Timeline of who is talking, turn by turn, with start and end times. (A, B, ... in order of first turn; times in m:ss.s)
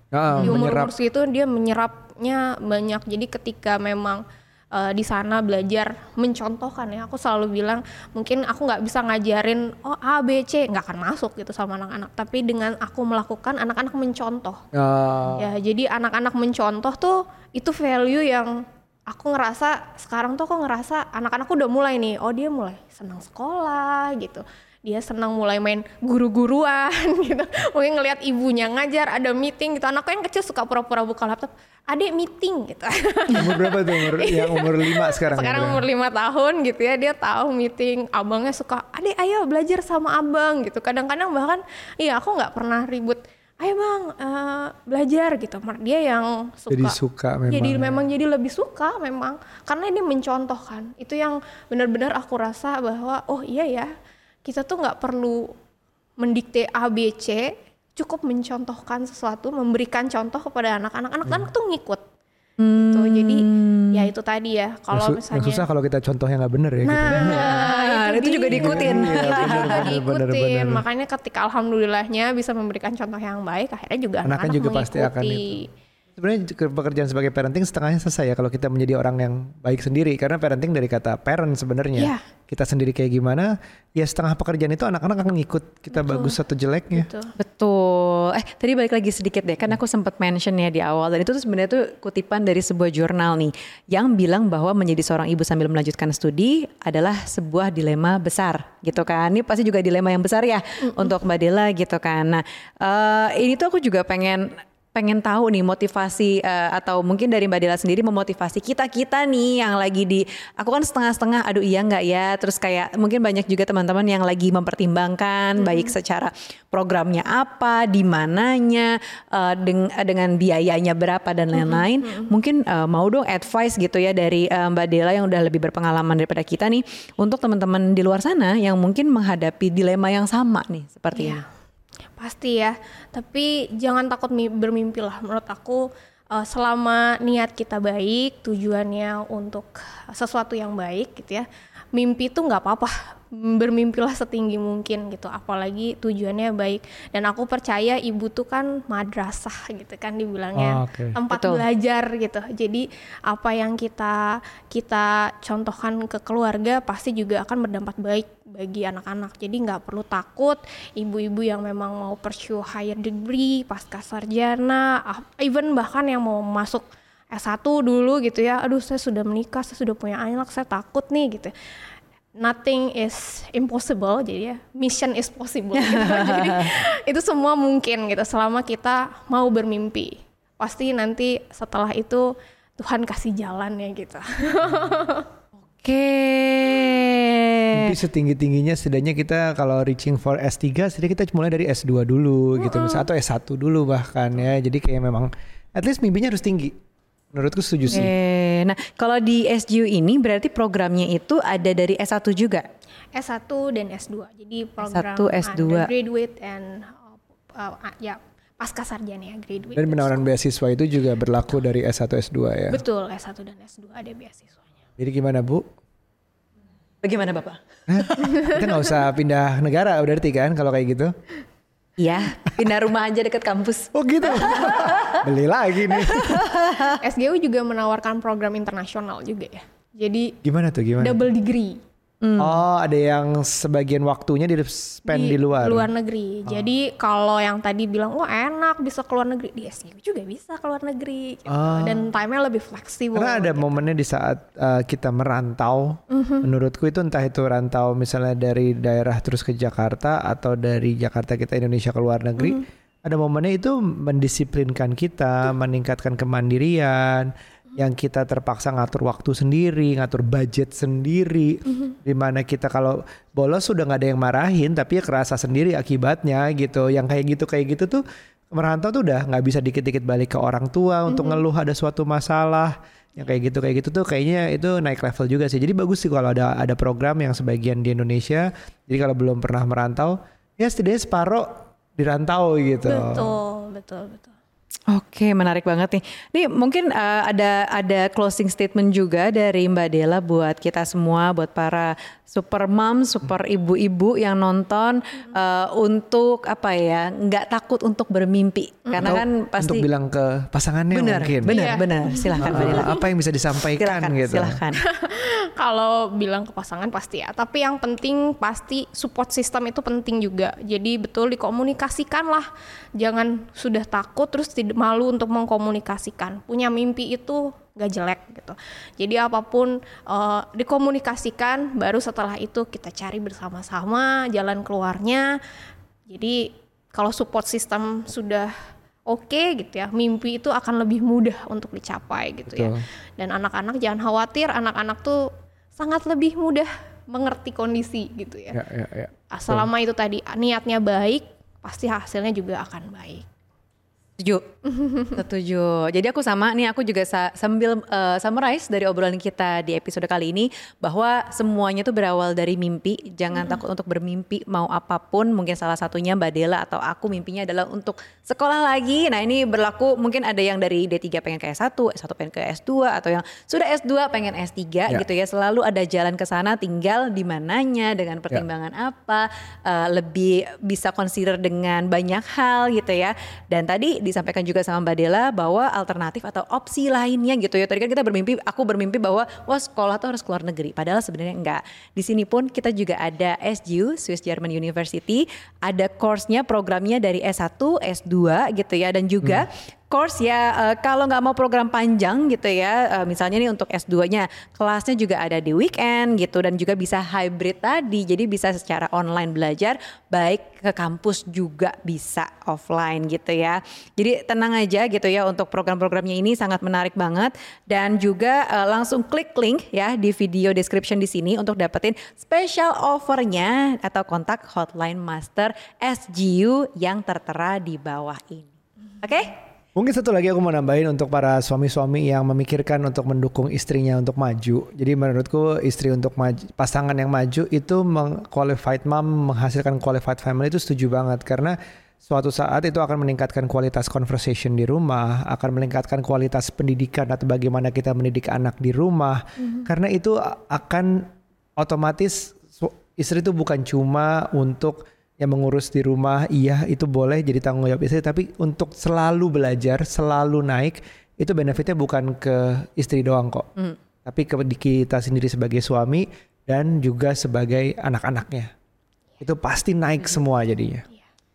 0:00.1-0:00.9 A
0:00.4-0:14.6 B
0:14.7-0:15.5 A
0:15.3-0:47.0 B
0:33.3-0:35.8 A
0:46.7-0:48.0 A
0:47.5-0:53.9 B
0:54.4-0:55.5 B
0:56.2-1:02.0 B
1:02.6-1:04.1 C
1:02.7-1:05.6 B
1:04.9-1:07.5 A
1:06.8-1:15.7 B
1:07.1-1:09.9 C
1:08.5-1:10.8 A
1:14.2-1:15.6 A
1:16.2-1:27.1 A
1:22.0-1:22.2 B
1:25.9-1:26.4 B
1:26.9-1:27.3 B
1:27.4-2:11.4 C
1:55.6-1:55.9 B
2:01.5-2:02.3 B
2:11.1-2:11.4 B
2:12.2-2:51.5 B
2:30.5-2:31.2 A
2:31.3-2:31.6 C
2:52.4-3:05.3 B
2:55.7-2:56.8 C
3:05.8-3:08.0 C
3:07.7-3:16.8 A
3:12.6-3:13.1 B
3:17.3-3:18.1 A
3:17.9-3:22.7 C
3:23.1-3:30.2 B
3:24.8-3:25.9 C
3:29.7-3:32.8 A
3:32.7-3:34.6 B
3:35.0-3:35.7 A
3:37.0-3:38.6 C
3:37.9-3:41.1 A
3:38.2-3:38.6 B
3:42.0-3:45.2 C
3:43.9-3:46.5 A
3:46.0-3:47.0 C
3:47.0-3:50.4 B
3:50.4-3:51.2 A
3:51.0-3:51.8 B
3:52.2-3:52.6 C
3:52.4-3:55.9 A
3:55.1-4:03.8 B
4:01.5-4:02.0 A
4:03.1-4:43.4 A
4:06.1-4:06.5 B
4:12.4-4:12.6 B
4:31.1-4:31.4 B
4:42.8-4:44.3 B
4:44.9-4:59.8 C
4:59.0-5:01.6 A
5:00.9-5:03.0 C
5:01.5-5:03.0 B
5:02.4-5:04.6 A
5:03.7-5:04.8 C
5:04.8-5:25.3 B
5:26.1-5:28.5 B
5:29.1-5:38.6 B
5:32.5-5:32.8 A
5:38.5-5:39.7 A
5:39.3-5:43.2 B
5:44.2-5:44.4 C
5:44.6-5:45.2 B
5:45.1-6:59.3 C
6:59.8-7:33.5 A
7:34.0-7:38.5 A
7:39.2-7:40.8 A